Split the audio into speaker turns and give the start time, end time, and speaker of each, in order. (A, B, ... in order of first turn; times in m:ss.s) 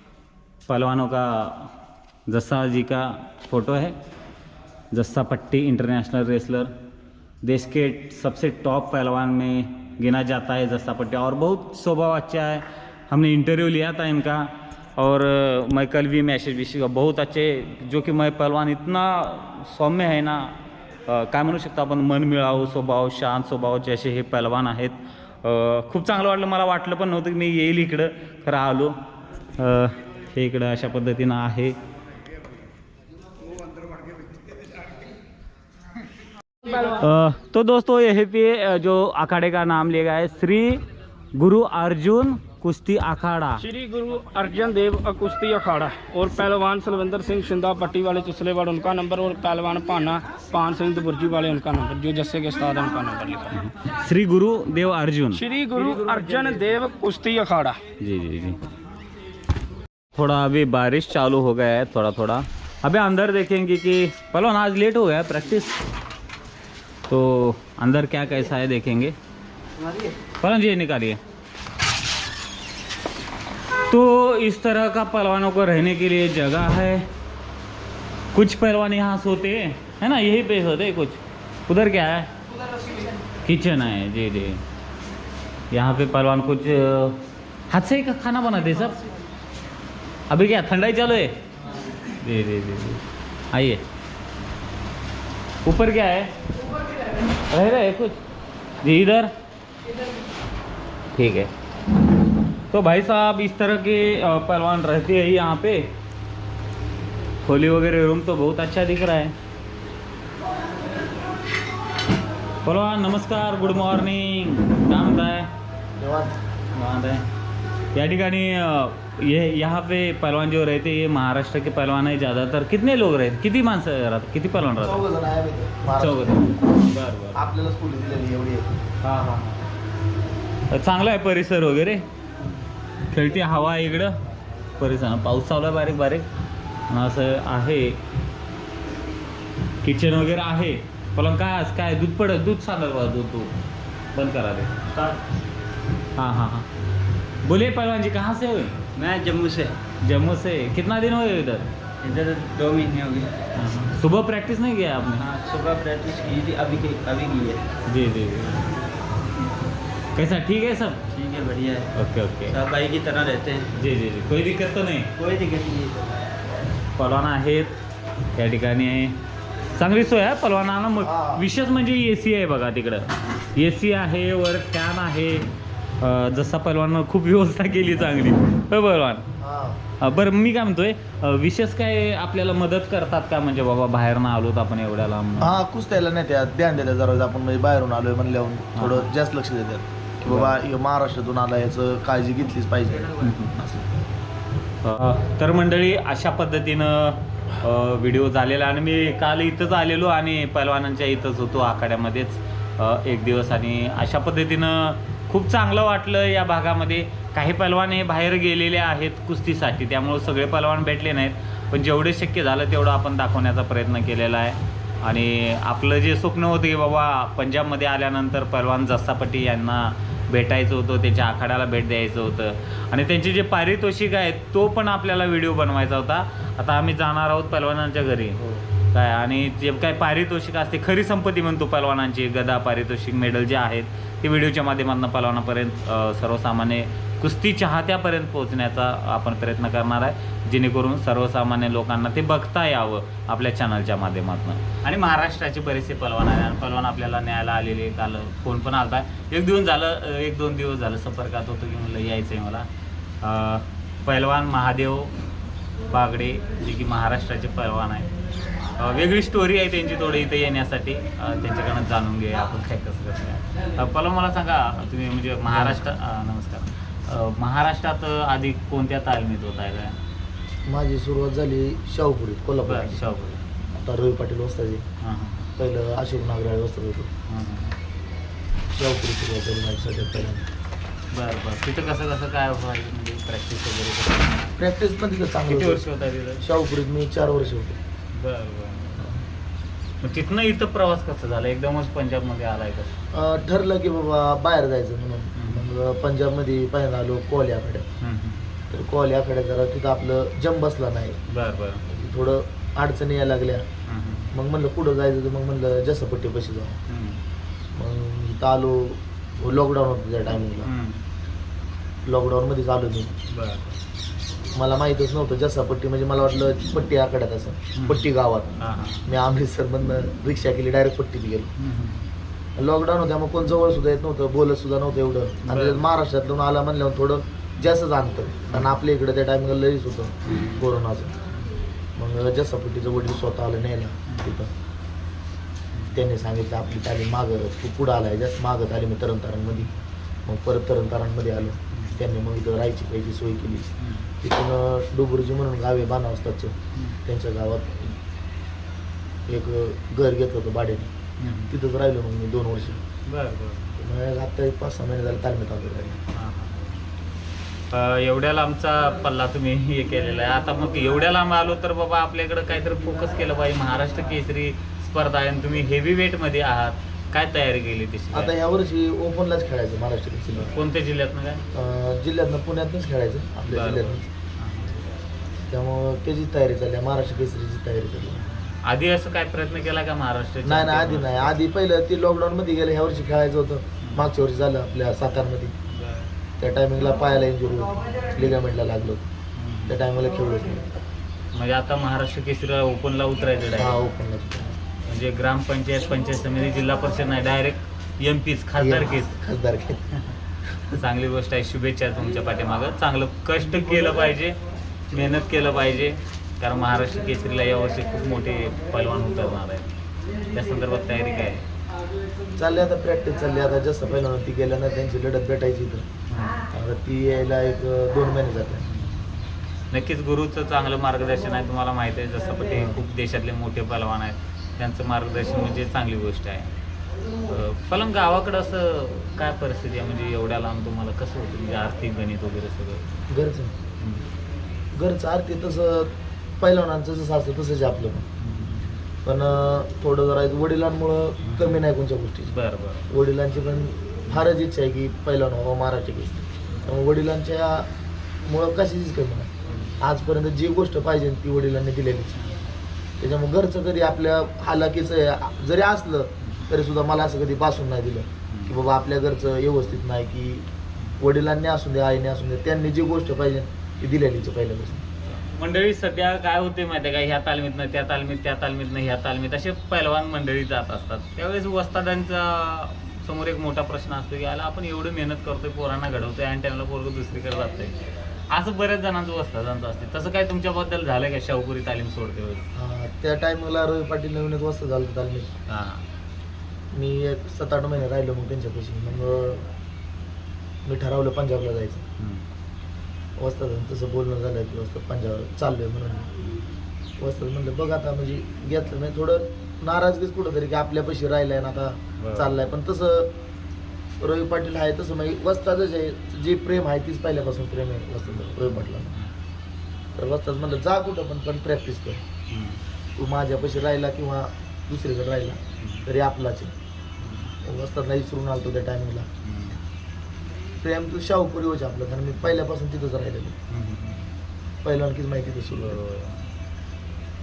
0:00.7-0:01.7 A
0:02.3-0:04.0 A
0:04.9-0:06.7 A
0:07.4-0:29.0 A
0:29.6-0:31.8 A
0:36.8-0:40.8 A
0:41.3-0:43.6 A
0:43.6-0:53.6 B
0:53.5-0:55.4 A
0:55.3-0:57.8 B
0:58.0-0:58.6 A
1:00.1-1:05.8 A
1:07.1-1:09.2 A
1:10.4-1:11.2 A
1:13.9-1:17.1 A
1:18.3-1:22.3 A
1:23.4-1:24.6 A
1:25.7-1:29.0 A
1:30.3-1:31.4 A
1:32.2-1:33.8 A
1:35.6-1:36.3 A
1:37.5-1:38.2 A
1:38.8-1:39.3 A
1:41.2-1:41.5 A
1:42.7-1:45.9 A
1:47.4-1:49.3 A
1:52.6-1:55.5 A
1:56.0-1:56.4 C
1:56.7-1:57.3 A
1:57.9-2:05.0 A
2:04.8-2:06.5 C
2:06.0-2:07.4 A
2:07.3-2:08.8 C
2:09.0-2:09.6 A
2:10.7-2:12.0 A
2:13.1-2:14.2 A
2:14.8-2:16.3 A
2:16.9-2:18.0 A
2:19.8-2:23.6 A
2:24.1-2:25.0 A
2:26.2-2:26.7 A
2:27.4-2:28.8 A
2:28.9-2:29.8 D
2:30.0-2:31.7 A
2:32.0-2:33.3 D
2:33.5-2:35.2 A
2:35.2-2:37.6 D
2:37.9-2:38.7 A
2:40.2-2:41.0 A
2:41.1-2:41.9 D
2:41.9-2:42.6 A
2:42.5-2:43.7 D
2:43.7-2:45.1 A
2:45.2-2:46.2 D
2:47.0-2:47.8 A
2:48.3-2:49.2 A
2:49.7-2:59.2 A
2:51.0-2:51.5 C
2:59.4-2:59.8 C
3:00.0-3:05.6 A
3:05.4-3:13.8 C
3:08.8-3:09.1 A
3:10.3-3:10.6 A
3:13.2-3:13.6 A
3:14.8-3:48.4 A
3:48.9-4:12.7 A
4:13.2-4:15.1 A
4:15.9-4:18.1 A
4:18.8-4:30.0 A
4:25.5-4:25.8 C
4:30.6-4:33.0 C
4:32.6-4:33.4 A
4:33.7-4:34.8 C
4:35.0-4:35.5 A
4:35.6-4:37.1 C
4:37.3-4:37.8 A
4:38.7-4:40.5 C
4:41.1-4:44.5 A
4:44.6-4:45.9 C
4:45.5-4:46.4 A
4:46.4-4:47.8 C
4:48.1-4:49.2 A
4:50.0-4:53.0 A
4:53.1-4:57.9 C
4:55.4-4:55.7 A
4:58.0-4:58.5 A
4:58.7-5:01.2 C
5:01.3-5:01.8 A
5:01.9-5:03.6 C
5:03.9-5:04.3 A
5:04.3-5:06.8 C
5:06.9-5:07.2 A
5:07.7-5:10.7 C
5:10.6-5:11.0 A
5:12.0-5:13.1 C
5:13.3-5:13.8 A
5:14.5-5:21.5 C
5:17.8-5:19.1 A
5:21.6-5:22.1 A
5:22.6-5:31.1 C
5:25.4-5:25.8 A
5:28.5-5:28.8 A
5:31.9-5:34.5 C
5:35.7-5:36.0 A
5:35.9-5:39.7 C
5:40.2-5:48.0 C
5:41.7-5:42.0 A
5:43.8-5:44.1 A
5:49.3-5:50.9 C
5:51.2-5:51.5 A
5:51.5-5:52.8 C
5:53.0-5:53.8 A
5:53.8-5:56.0 C
5:56.1-5:56.7 A
5:57.7-6:08.3 A
6:08.1-6:10.6 C
6:10.3-6:11.4 A
6:11.5-6:14.1 C
6:13.5-6:14.8 A
6:15.5-6:18.2 C
6:18.2-6:21.4 A
6:20.4-6:25.6 C
6:23.8-6:24.1 A
6:25.7-6:26.1 A
6:26.4-6:29.1 C
6:29.4-6:29.8 A
6:29.7-6:30.7 C
6:31.3-6:33.8 A
6:33.5-6:34.6 C
6:34.8-6:39.1 A
6:38.6-6:40.8 C
6:40.7-6:44.4 A
6:44.9-6:49.7 A
6:50.3-6:51.4 A
6:52.3-6:55.9 C
6:56.1-6:56.4 A
6:56.5-6:58.7 C
6:58.7-6:59.0 A
6:59.7-7:06.5 A
7:02.5-7:02.8 C
7:07.2-7:13.0 A
7:13.1-7:13.5 C
7:13.8-7:14.0 A
7:14.7-7:18.0 C
7:18.2-7:18.8 A
7:19.0-7:22.3 C
7:21.2-7:21.6 A
7:22.3-7:22.9 A
7:22.9-7:27.7 C
7:28.2-7:32.2 C
7:29.5-7:29.8 A
7:33.0-7:40.5 C
7:36.2-7:36.5 A
7:38.3-7:38.6 A
7:41.0-7:44.8 C
7:45.0-7:57.8 A
7:58.3-8:02.5 A
8:02.5-8:05.3 C
8:05.5-8:05.8 A
8:06.7-8:09.5 C
8:10.6-8:11.8 C
8:12.0-8:12.2 A
8:13.2-8:16.1 C
8:16.2-8:16.4 A
8:17.0-8:23.2 C
8:22.0-8:22.4 A
8:24.0-8:29.0 C
8:28.1-8:29.1 A
8:29.9-8:32.0 C
8:32.3-8:32.6 A
8:33.0-8:36.5 C
8:35.6-8:35.8 A
8:37.0-8:37.3 A
8:37.4-8:39.1 C
8:39.2-8:39.6 A
8:40.6-8:43.4 C
8:43.5-8:44.1 A
8:44.6-8:45.8 C
8:45.6-8:46.2 A